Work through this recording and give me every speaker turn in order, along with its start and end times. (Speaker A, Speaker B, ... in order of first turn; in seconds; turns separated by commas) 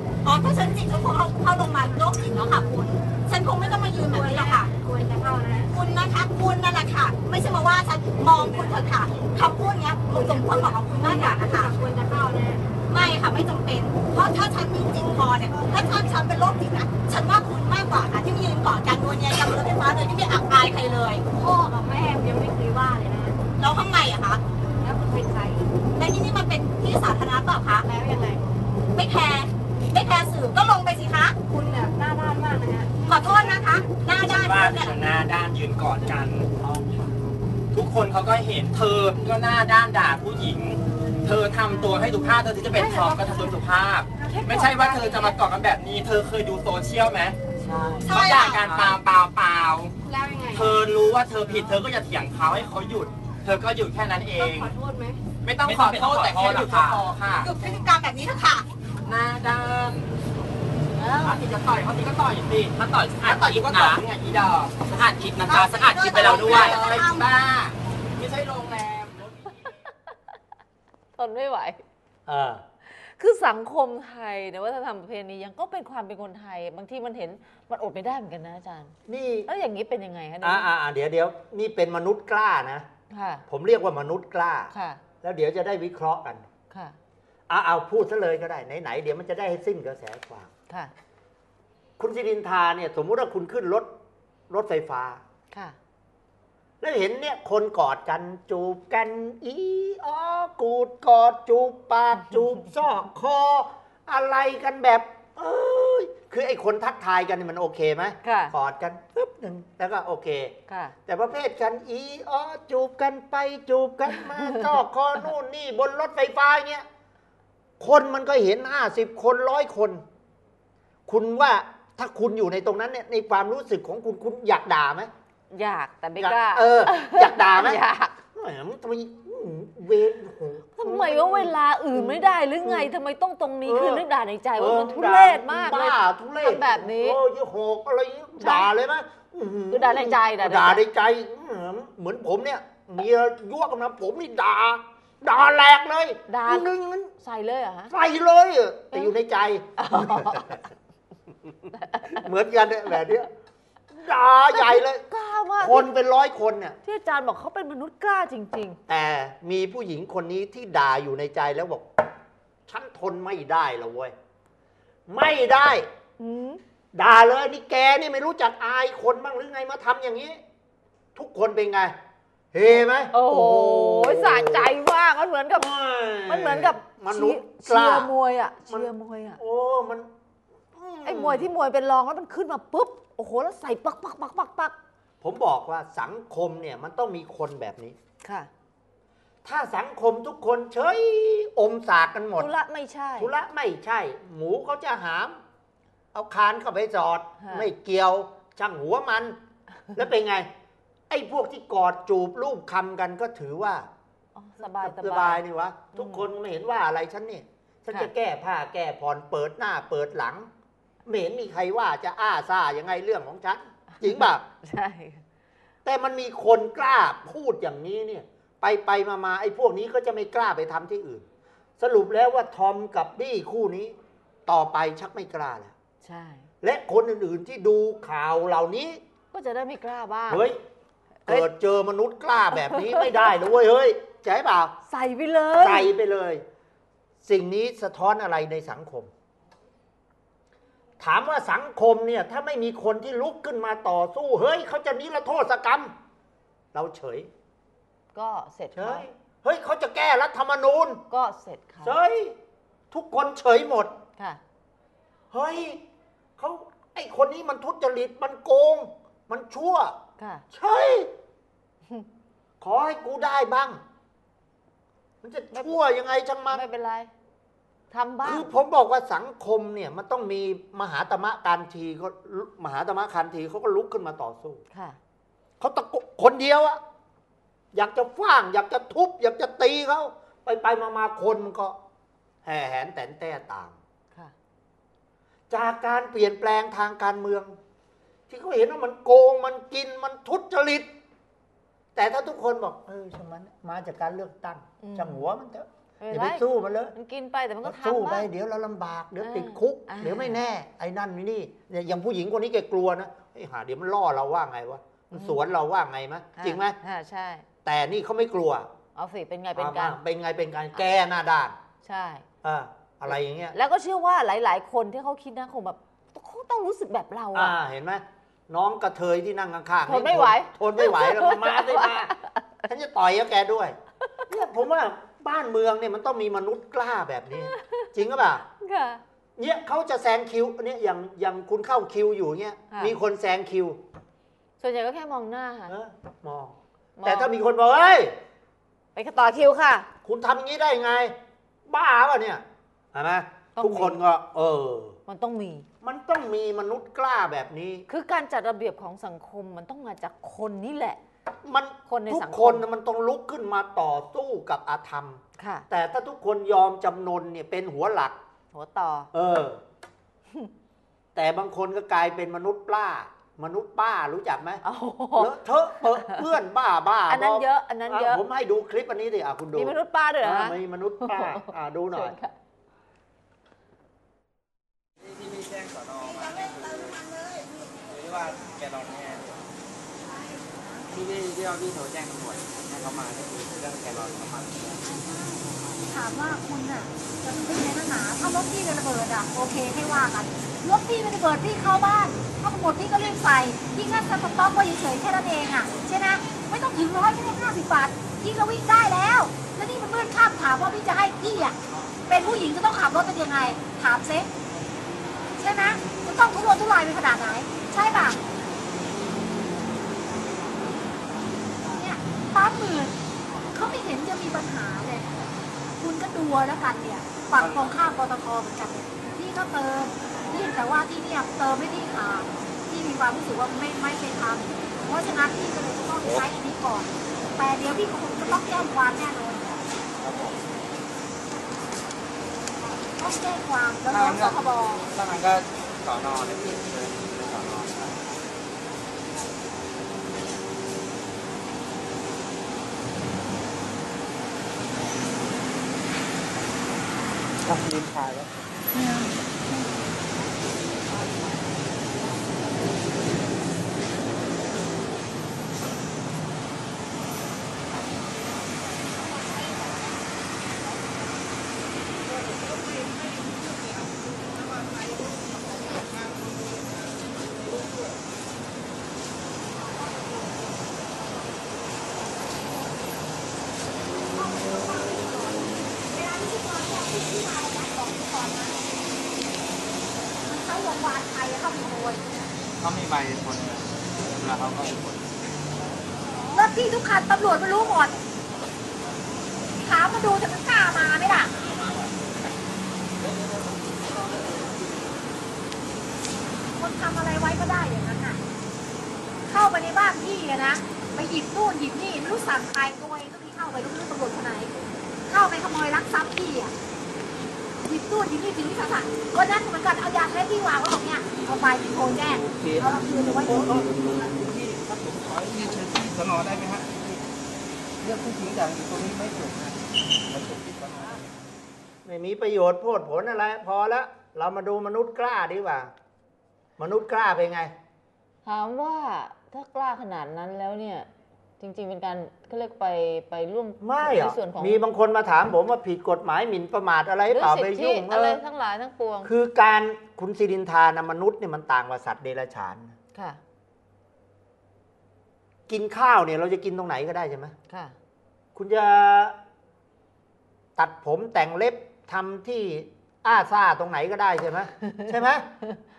Speaker A: 0.2-2.7, Speaker B: 2.6-3.0, Speaker A: 3.3-4.7, Speaker B: 4.1-5.7, Speaker A: 5.7-11.7, Speaker B: 8.2-8.8, Speaker B: 10.1-12.7, Speaker A: 12.9-21.2, Speaker B: 21.3-23.4, Speaker A: 23.6-24.4, Speaker B: 24.8-25.8, Speaker A: 25.9-27.8, Speaker B: 27.8-28.5, Speaker A: 28.9-31.4, Speaker B: 31.5-33.8, Speaker A: 33.1-35.0, Speaker C: 34.2-36.9, Speaker C: 37.7-47.4, Speaker B: 42.7-43.6, Speaker B: 44.2-45.4, Speaker D: 47.6-48.0, Speaker C: 48.0-49.9, Speaker A: 48.0-49.0, Speaker B: 50.0-50.8, Speaker C: 50.5-54.7, Speaker B: 54.3-55.2, Speaker C: 55.4-57.5, Speaker E: 55.6-56.8, Speaker A: 57.4-58.6, Speaker C: 59.0-60.1, Speaker D: 61.0-61.3, Speaker C: 61.2-69.3, Speaker A: 65.4-67.3, Speaker D: 71.2-71.8, Speaker F: 72.3-72.6, Speaker D: 73.0-79.0, Speaker F: 79.1-79.5, Speaker D: 79.5-80.7, Speaker F: 80.4-82.9, Speaker D: 83.1-83.4, Speaker F: 83.5-86.5, Speaker D: 84.7-85.0, Speaker D: 86.7-87.0, Speaker F: 87.5-90.5, Speaker F: 92.0-93.9, Speaker F: 94.5-95.2, Speaker F: 96.8-116.8, Speaker D: 108.2-108.5, Speaker D: 110.7-110.9, Speaker D: 114.4-114.7, Speaker F: 117.8-120.0, Speaker F: 121.1-125.1, Speaker D: 125.5-128.1, Speaker F: 126.2-132.9, Speaker D: 130.8-137.2, Speaker F: 133.6-147.1, Speaker D: 138.4-138.7, Speaker D: 139.7-140.8, Speaker D: 146.3-147.9, Speaker F: 147.9-150.6, Speaker D: 149.8-150.6, Speaker D: 151.7-152.2, Speaker F: 152.1-153.3, Speaker F: 153.9-155.0, Speaker D: 154.5-155.9, Speaker F: 155.6-156.8, Speaker D: 156.8-158.8, Speaker F: 158.9-162.1, Speaker F: 162.7-164.1, Speaker F: 165.1-165.9, Speaker D: 166.2-166.6, Speaker F: 166.9-170.4, Speaker F: 171.1-171.9, Speaker F: 172.5-174.7, Speaker D: 173.1-175.7, Speaker F: 175.6-178.1, Speaker D: 176.3-179.4, Speaker F: 178.7-180.1, Speaker F: 180.7-181.5, Speaker D: 181.0-184.8, Speaker F: 185.2-188.0, Speaker D: 188.2-188.5, Speaker F: 189.4-192.5, Speaker D: 192.4-193.3, Speaker F: 193.2-195.4, Speaker F: 196.1-199.4, Speaker D: 197.4-197.7, Speaker F: 199.9-200.5, Speaker F: 201.1-203.9, Speaker D: 204.3-206.3, Speaker F: 204.6-210.5, Speaker F: 211.0-214.4, Speaker D: 214.2-215.2, Speaker F: 215.8-221.3, Speaker F: 221.8-225.7, Speaker D: 226.0-226.5, Speaker F: 226.6-229.0, Speaker D: 229.3-230.4, Speaker F: 230.3-230.6, Speaker F: 231.2-234.7, Speaker D: 232.7-233.2, Speaker D: 234.9-235.9, Speaker F: 235.6-236.4, Speaker F: 237.2-239.1, Speaker F: 241.0-245.9, Speaker F: 246.7-247.3, Speaker D: 248.1-249.1, Speaker F: 248.7-251.0, Speaker D: 251.1-252.0, Speaker F: 251.8-252.4, Speaker F: 252.9-253.9, Speaker F: 255.3-255.8, Speaker F: 256.4-260.0, Speaker D: 260.2-260.4, Speaker F: 260.5-261.1, Speaker F: 262.6-263.8, Speaker F: 265.2-266.6, Speaker D: 266.5-267.1, Speaker D: 267.9-268.5, Speaker F: 268.2-274.6, Speaker D: 274.7-275.0, Speaker F: 275.6-276.8, Speaker F: 277.7-281.8, Speaker F: 282.4-283.8, Speaker F: 285.5-287.6, Speaker F: 288.3-290.9, Speaker F: 291.9-296.9, Speaker D: 294.8-295.3, Speaker D: 296.0-298.3, Speaker F: 297.6-306.8, Speaker D: 299.2-300.4, Speaker D: 305.1-305.4, Speaker D: 306.4-307.4, Speaker F: 307.6-308.7, Speaker D: 308.9-310.0, Speaker F: 309.6-311.6, Speaker D: 311.8-312.2, Speaker F: 312.4-313.5, Speaker D: 313.5-317.5, Speaker F: 317.3-322.1, Speaker D: 319.9-322.5, Speaker F: 322.7-323.8, Speaker F: 324.3-328.4, Speaker D: 327.5-327.9, Speaker D: 328.5-329.0, Speaker F: 329.4-333.8, Speaker D: 332.7-333.0, Speaker D: 334.6-335.7, Speaker F: 335.7-338.2, Speaker D: 337.0-337.3, Speaker D: 338.9-339.9, Speaker F: 340.0-341.1, Speaker F: 341.7-345.0, Speaker D: 343.6-344.0, Speaker D: 345.1-345.7, Speaker F: 345.8-347.9, Speaker D: 347.9-351.0, Speaker F: 351.4-358.2, Speaker D: 351.9-352.6, Speaker D: 355.4-355.7, Speaker D: 358.5-359.1, Speaker F: 359.1-359.6, Speaker F: 361.1-364.6, Speaker D: 364.6-366.2, Speaker F: 365.1-372.1, Speaker D: 367.1-368.2, Speaker D: 369.5-372.3, Speaker E: 375.0-377.1, Speaker E: 377.9-379.5, Speaker E: 380.9-384.8, Speaker G: 384.9-401.6, Speaker G: 402.1-404.3, Speaker G: 405.4-408.2, Speaker G: 411.6-413.0, Speaker G: 413.5-415.1, Speaker G: 415.8-429.6, Speaker E: 417.4-417.7, Speaker E: 430.0-430.4, Speaker G: 433.0-434.9, Speaker E: 433.9-438.1, Speaker E: 447.4-448.5, Speaker E: 462.1-463.1, Speaker E: 465.1-467.8, Speaker G: 474.1-478.6, Speaker G: 480.2-482.2, Speaker E: 482.6-485.2, Speaker G: 486.3-487.9, Speaker G: 489.6-491.3, Speaker E: 493.0-495.0, Speaker G: 496.5-498.2, Speaker G: 499.3-504.5, Speaker G: 505.1-506.5, Speaker G: 507.6-513.6, Speaker E: 512.1-517.1, Speaker E: 517.8-521.2, Speaker F: 521.8-525.7, Speaker F: 526.6-527.5, Speaker D: 528.2-530.9, Speaker D: 531.4-534.6, Speaker F: 533.6-538.2, Speaker D: 537.1-539.1, Speaker F: 539.0-542.8, Speaker D: 542.9-543.2, Speaker F: 545.5-547.3, Speaker D: 547.5-547.8, Speaker F: 548.3-549.2, Speaker F: 550.5-555.3